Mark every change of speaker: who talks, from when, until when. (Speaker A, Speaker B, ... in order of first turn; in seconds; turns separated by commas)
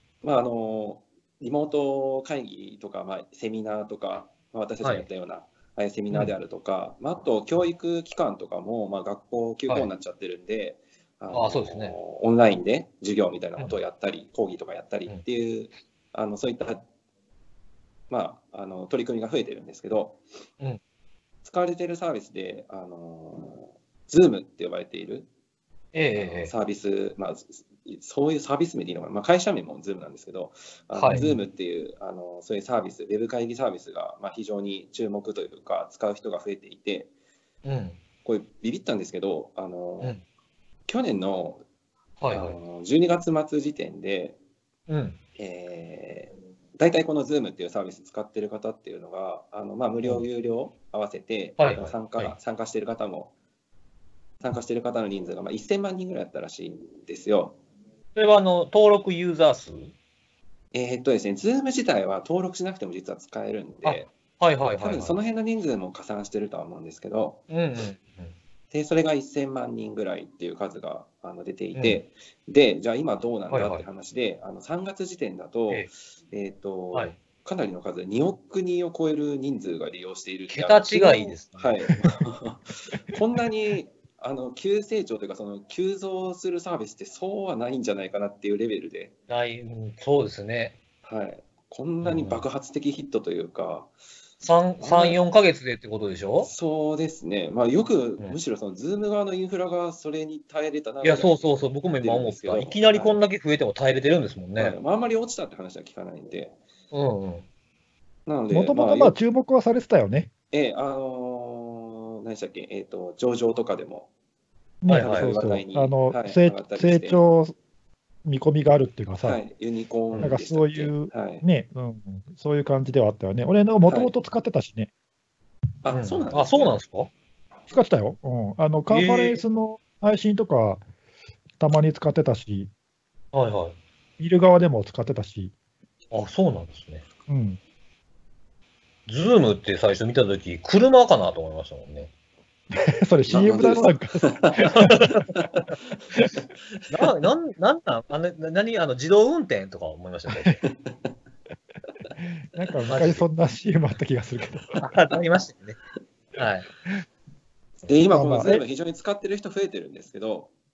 Speaker A: 0.2-16.8, Speaker B: 11.3-11.9, Speaker A: 18.1-20.2, Speaker A: 21.4-25.3, Speaker B: 25.9-26.5, Speaker A: 26.1-37.1, Speaker B: 30.9-31.4, Speaker B: 37.6-38.0, Speaker A: 38.2-40.1, Speaker A: 40.9-41.6, Speaker B: 42.2-42.6, Speaker A: 42.3-44.4, Speaker B: 44.9-45.2, Speaker A: 45.4-53.3, Speaker B: 51.6-52.3, Speaker A: 54.4-57.6, Speaker B: 58.1-59.9, Speaker A: 60.7-64.1, Speaker B: 63.8-65.2, Speaker A: 64.8-67.4, Speaker B: 67.5-68.3, Speaker A: 68.7-89.1, Speaker B: 71.7-72.0, Speaker B: 73.5-73.8, Speaker B: 80.5-81.8, Speaker B: 89.3-90.8, Speaker A: 91.0-93.9, Speaker B: 92.0-92.4, Speaker B: 94.4-96.5, Speaker A: 94.8-95.2, Speaker A: 96.4-103.2, Speaker B: 101.0-104.8, Speaker A: 104.6-106.5, Speaker B: 106.9-107.4, Speaker A: 108.2-109.1, Speaker C: 108.5-110.3, Speaker A: 110.5-114.1, Speaker C: 114.8-117.5, Speaker B: 114.9-115.3, Speaker A: 115.0-117.2, Speaker C: 118.2-119.4, Speaker A: 119.2-121.4, Speaker C: 120.2-124.9, Speaker A: 123.8-124.1, Speaker A: 125.8-126.8, Speaker B: 125.9-127.1, Speaker C: 127.7-130.8, Speaker B: 128.9-129.4, Speaker C: 131.6-132.7, Speaker B: 133.3-133.8, Speaker C: 134.2-135.5, Speaker B: 136.1-137.0, Speaker C: 137.3-137.6, Speaker B: 139.1-142.1, Speaker C: 142.7-144.2, Speaker A: 143.3-144.7, Speaker B: 144.6-145.4, Speaker B: 146.9-150.6, Speaker A: 150.6-150.9, Speaker C: 152.2-154.8, Speaker B: 152.9-153.2, Speaker B: 154.8-155.8, Speaker B: 156.3-156.7, Speaker A: 157.8-160.5, Speaker C: 158.1-158.6